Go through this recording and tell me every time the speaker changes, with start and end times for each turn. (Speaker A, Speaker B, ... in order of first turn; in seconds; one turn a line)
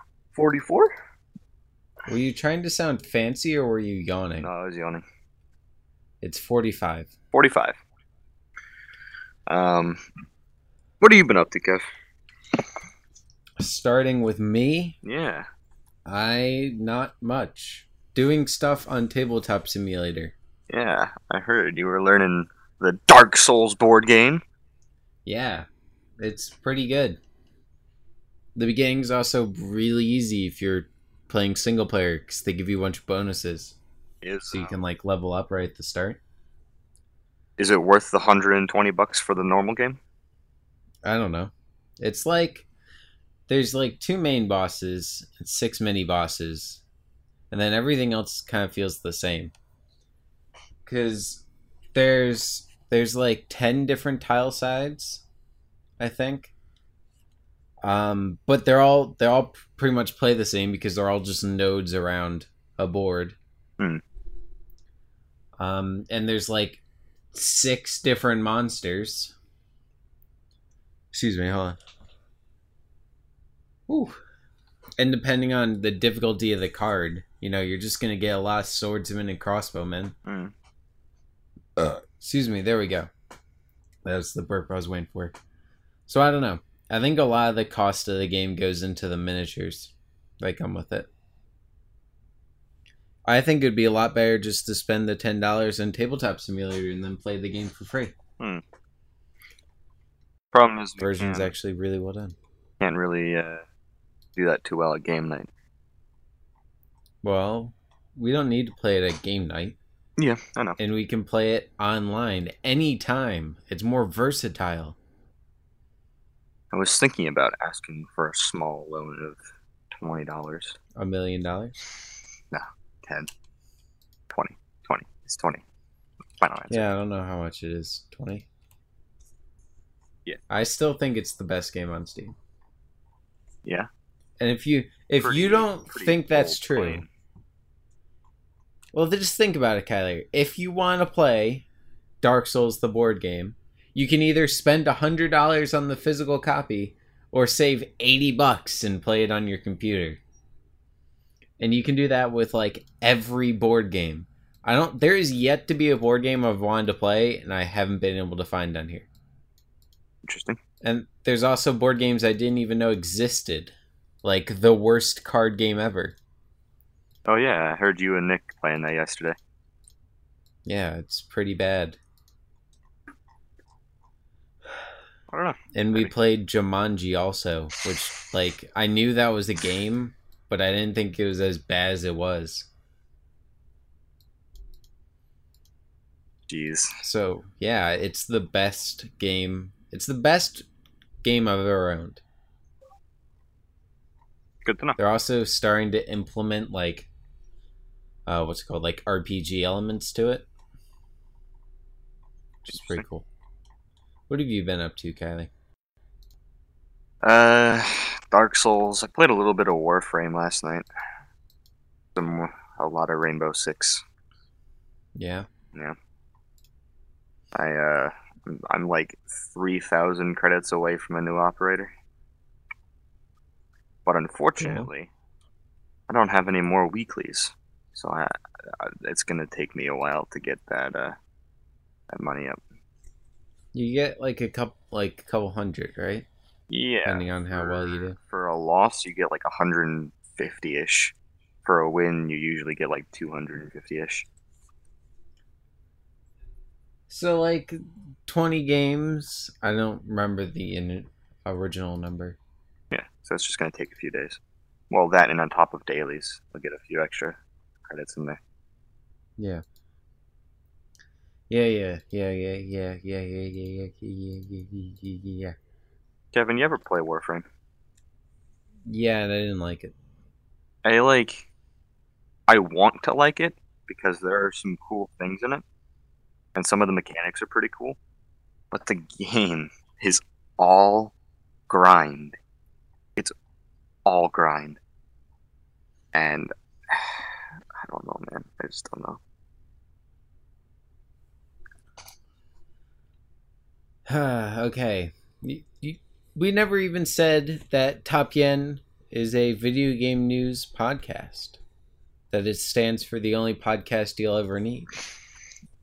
Speaker A: 0.3-0.9
Speaker B: 2.1-4.5
Speaker A: 4.4-5.0
Speaker B: 6.2-7.1
Speaker A: 7.3-7.8
Speaker A: 9.5-10.0
Speaker A: 11.0-11.8
Speaker B: 13.6-15.0
Speaker A: 15.0-15.4
Speaker B: 16.1-20.3
Speaker A: 20.7-24.4
Speaker B: 25.2-25.7
Speaker B: 26.2-27.2
Speaker B: 28.6-33.8
Speaker A: 34.2-34.8
Speaker B: 34.5-36.2
Speaker A: 37.6-40.0
Speaker B: 41.0-42.6
Speaker B: 43.5-46.8
Speaker B: 47.5-49.5
Speaker B: 50.8-55.2
Speaker B: 56.0-56.5
Speaker B: 57.8-63.4
Speaker B: 65.6-66.8
Speaker B: 67.3-69.3
Speaker B: 71.1-71.8
Speaker B: 73.9-74.2
Speaker B: 75.0-80.1
Speaker A: 80.2-80.5
Speaker B: 81.8-83.1
Speaker B: 84.0-85.3
Speaker B: 86.1-91.1
Speaker B: 93.2-98.2
Speaker A: 100.5-101.5
Speaker B: 101.0-102.3
Speaker A: 102.8-103.6
Speaker A: 104.3-105.5
Speaker B: 107.2-109.8
Speaker A: 110.2-110.8
Speaker B: 110.8-115.0
Speaker A: 116.7-119.4
Speaker A: 119.9-120.8
Speaker B: 120.9-121.7
Speaker A: 122.5-123.3
Speaker A: 124.3-125.6
Speaker A: 126.4-126.9
Speaker B: 126.7-128.5
Speaker B: 130.5-132.3
Speaker B: 134.4-137.0
Speaker A: 135.2-137.1
Speaker B: 138.9-141.7
Speaker B: 142.2-150.2
Speaker B: 151.6-159.1
Speaker A: 160.2-160.6
Speaker B: 160.8-166.2
Speaker A: 167.2-169.3
Speaker B: 170.7-172.0
Speaker A: 175.3-176.1
Speaker B: 175.7-182.7
Speaker A: 186.5-186.9
Speaker B: 187.0-190.7
Speaker B: 191.2-192.2
Speaker A: 194.6-195.0
Speaker B: 195.0-197.1
Speaker B: 198.3-200.5
Speaker A: 202.7-203.0
Speaker B: 202.7-203.2
Speaker B: 204.3-205.5
Speaker A: 207.2-210.9
Speaker A: 212.2-214.0
Speaker B: 215.2-215.5
Speaker A: 217.5-221.9
Speaker A: 224.1-225.1
Speaker B: 224.6-224.9
Speaker A: 226.1-231.2
Speaker A: 232.1-232.6
Speaker B: 233.7-236.3
Speaker A: 236.7-244.3
Speaker B: 237.0-238.2
Speaker B: 247.1-252.4
Speaker A: 252.9-258.4
Speaker B: 261.5-265.6
Speaker A: 266.3-267.4
Speaker B: 268.9-269.9
Speaker A: 270.8-271.5
Speaker A: 272.5-275.6
Speaker A: 276.5-278.0
Speaker A: 278.7-281.1
Speaker A: 281.7-282.4
Speaker A: 284.1-284.8
Speaker A: 286.1-289.2
Speaker B: 294.1-301.6
Speaker B: 302.3-304.9